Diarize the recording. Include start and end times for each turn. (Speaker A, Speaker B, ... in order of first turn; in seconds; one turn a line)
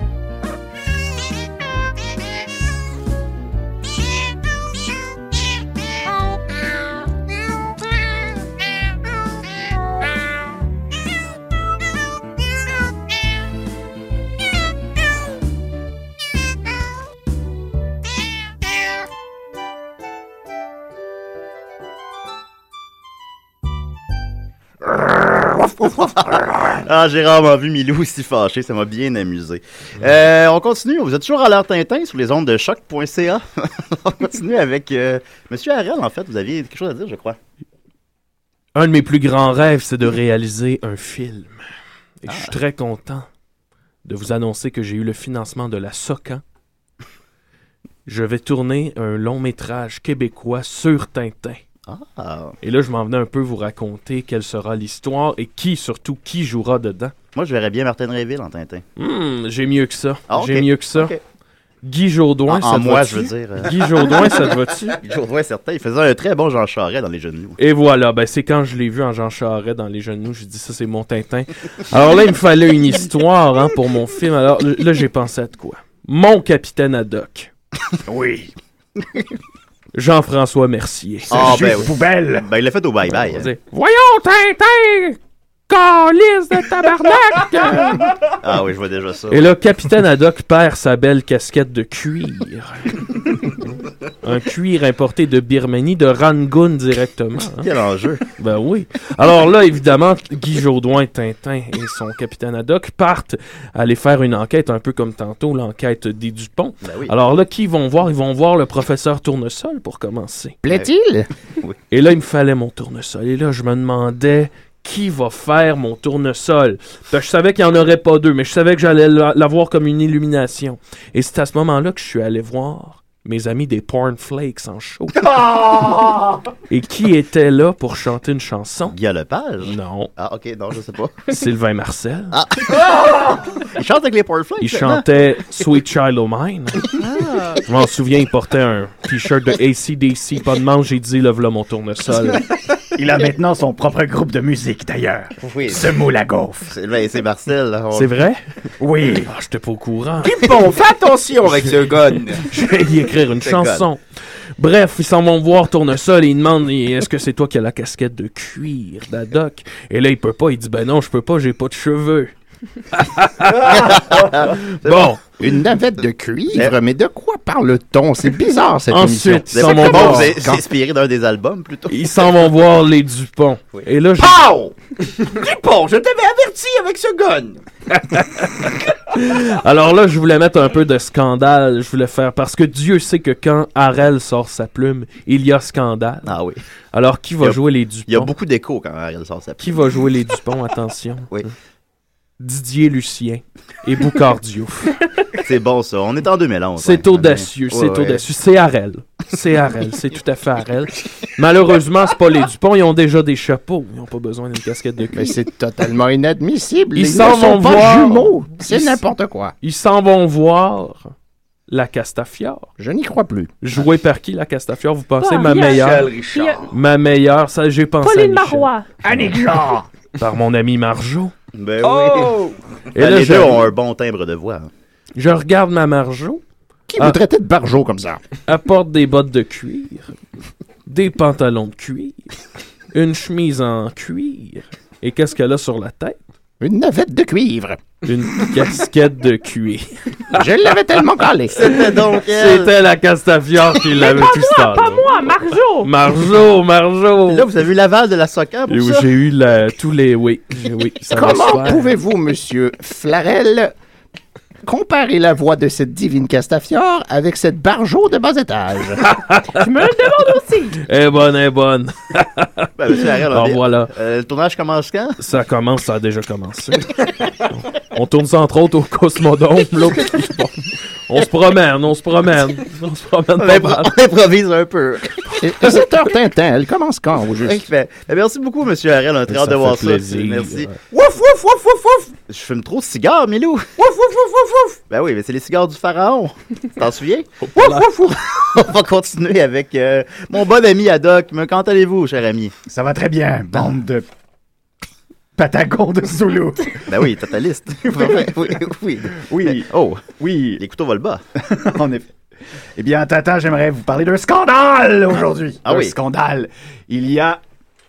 Speaker A: 25.8-37.4
Speaker B: 38.7-41.6
Speaker B: 42.2-43.2
Speaker A: 42.3-42.5
Speaker B: 44.0-46.4
Speaker B: 48.0-51.6
Speaker A: 51.9-52.5
Speaker B: 52.6-57.1
Speaker A: 57.3-58.8
Speaker B: 59.0-61.1
Speaker A: 60.3-61.2
Speaker B: 61.8-65.0
Speaker A: 62.5-64.4
Speaker A: 65.0-67.6
Speaker B: 67.6-77.5
Speaker C: 78.0-78.5
Speaker B: 79.9-81.8
Speaker A: 81.3-83.5
Speaker C: 81.3-82.5
Speaker B: 83.2-85.1
Speaker B: 85.7-88.0
Speaker A: 88.4-89.5
Speaker B: 89.3-93.5
Speaker B: 94.2-97.7
Speaker A: 97.6-98.2
Speaker B: 98.4-110.6
Speaker A: 106.8-107.1
Speaker D: 110.6-111.3
Speaker B: 111.9-125.2
Speaker C: 125.2-126.4
Speaker B: 126.7-128.9
Speaker A: 128.9-131.3
Speaker B: 129.6-130.1
Speaker B: 131.3-132.4
Speaker A: 132.3-133.0
Speaker A: 133.6-135.0
Speaker B: 134.6-136.9
Speaker A: 136.9-137.6
Speaker B: 137.6-142.4
Speaker C: 142.9-146.7
Speaker A: 145.4-145.9
Speaker A: 146.7-148.1
Speaker B: 147.9-148.4
Speaker C: 148.8-149.3
Speaker B: 149.2-150.3
Speaker E: 150.2-152.4
Speaker B: 152.4-154.0
Speaker A: 153.4-153.9
Speaker B: 154.6-162.3
Speaker B: 162.9-165.2
Speaker A: 163.7-165.1
Speaker D: 165.4-170.6
Speaker B: 168.9-170.4
Speaker A: 169.5-172.1
Speaker B: 171.9-174.4
Speaker E: 174.2-177.6
Speaker B: 177.9-186.3
Speaker A: 186.2-186.6
Speaker B: 186.9-188.3
Speaker A: 187.4-189.8
Speaker B: 189.6-191.5
Speaker B: 192.4-195.0
Speaker A: 195.4-198.2
Speaker B: 196.8-205.3
Speaker D: 205.2-209.5
Speaker B: 206.9-209.0
Speaker B: 209.6-211.1
Speaker B: 211.7-212.7
Speaker D: 212.8-213.5
Speaker B: 213.6-216.1
Speaker F: 215.2-216.6
Speaker E: 215.5-216.7
Speaker B: 216.7-219.3
Speaker F: 218.0-218.9
Speaker C: 219.0-219.8
Speaker B: 220.2-221.3
Speaker A: 221.5-222.4
Speaker E: 221.8-222.5
Speaker B: 222.9-223.7
Speaker A: 222.9-224.7
Speaker B: 225.2-226.4
Speaker D: 226.9-228.2
Speaker B: 228.5-230.1
Speaker B: 230.8-232.2
Speaker B: 232.9-236.2
Speaker D: 236.6-237.8
Speaker B: 238.0-240.4
Speaker D: 240.3-241.6
Speaker A: 241.5-242.7
Speaker B: 241.6-247.4
Speaker F: 243.9-245.9
Speaker A: 247.3-249.1
Speaker B: 248.7-251.9
Speaker D: 251.1-253.7
Speaker D: 254.7-259.0
Speaker B: 259.0-259.6
Speaker F: 259.5-260.7
Speaker B: 260.8-263.9
Speaker A: 262.8-265.2
Speaker B: 265.2-274.0
Speaker A: 273.4-275.3
Speaker D: 275.4-277.6
Speaker A: 277.4-280.7
Speaker B: 279.3-280.8
Speaker C: 280.9-281.6
Speaker A: 282.3-283.7
Speaker C: 283.9-284.6
Speaker A: 284.9-292.5
Speaker B: 287.4-288.1
Speaker C: 292.7-294.0
Speaker C: 295.4-296.8
Speaker A: 296.9-301.2
Speaker C: 299.2-300.6
Speaker C: 301.4-302.1
Speaker C: 302.8-307.4
Speaker A: 305.6-305.9